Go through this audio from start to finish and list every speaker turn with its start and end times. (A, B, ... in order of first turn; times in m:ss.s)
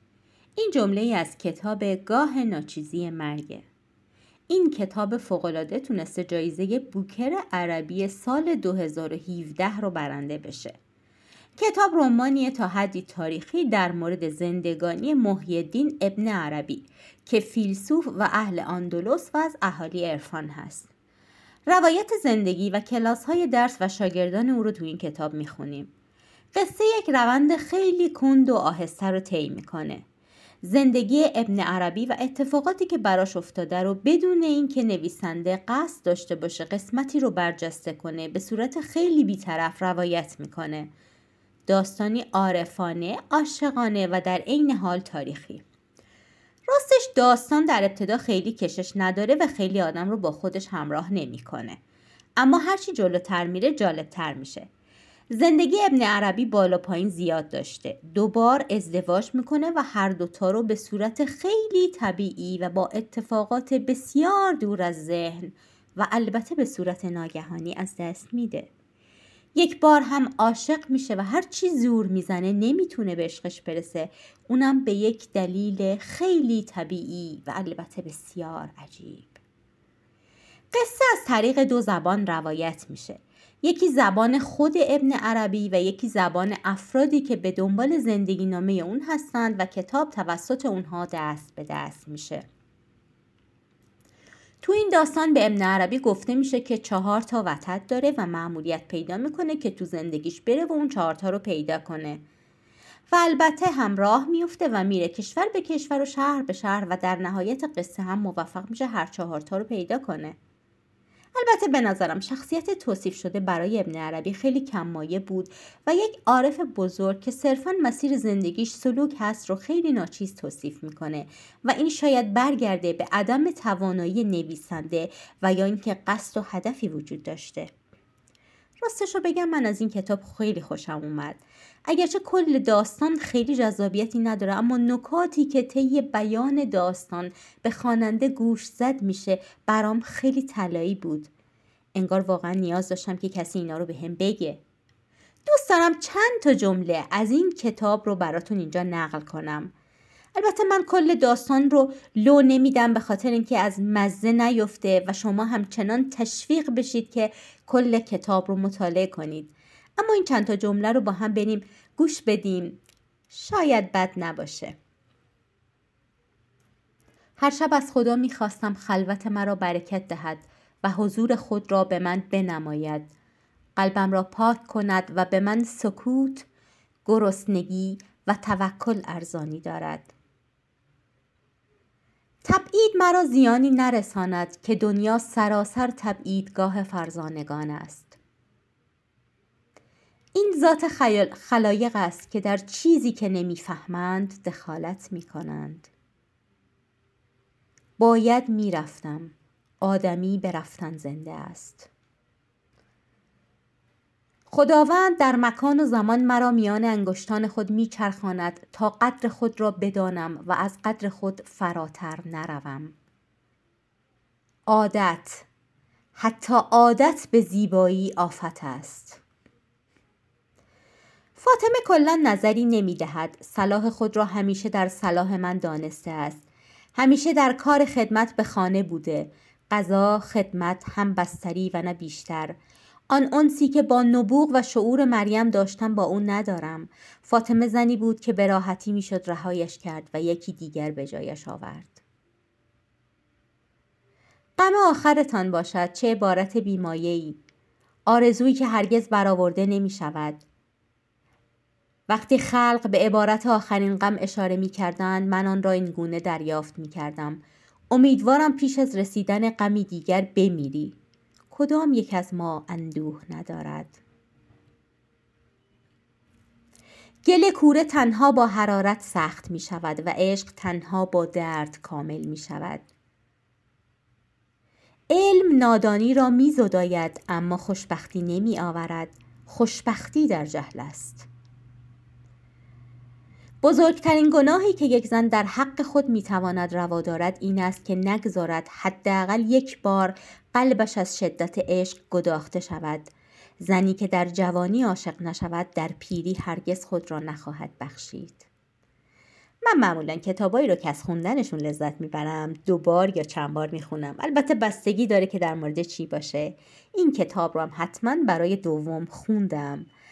0:00.6-0:03.6 A
0:04.5-0:10.8 A
0:11.6-0:20.9 A
0:21.7-0:25.9 A
0:26.5-0:30.0 A
0:30.6-0:40.9 A
0:41.7-0:45.6 A
0:46.7-0:51.8 A
0:52.4-0:54.7 A
0:55.3-1:08.7 A
1:09.5-1:19.4 A
1:20.7-1:32.5 A
1:34.6-1:42.2 A
1:43.1-1:50.4 A
1:51.3-2:07.7 A
2:08.8-2:21.3 A
2:21.9-2:24.6 A
2:25.5-2:29.7 A
2:30.3-2:42.8 A
2:43.3-2:44.8 A
2:47.4-2:53.1 A
2:53.8-2:56.5 A
2:57.0-3:00.1 A
3:02.4-3:08.2 A
3:10.3-3:15.9 A
3:18.0-3:21.9 A
3:24.5-3:32.9 A
3:34.7-3:35.4 A
3:36.2-3:39.2 A
3:41.4-3:46.4 A
3:46.9-3:52.6 A
3:53.1-4:02.0 A
4:04.6-4:07.4 A
4:08.1-4:10.4 A
4:12.1-4:17.4 A
4:17.9-4:21.0 A
4:21.5-4:24.0 A
4:27.2-4:32.9 A
4:35.1-4:41.3 A
4:43.6-4:58.4 A
4:59.6-5:09.9 A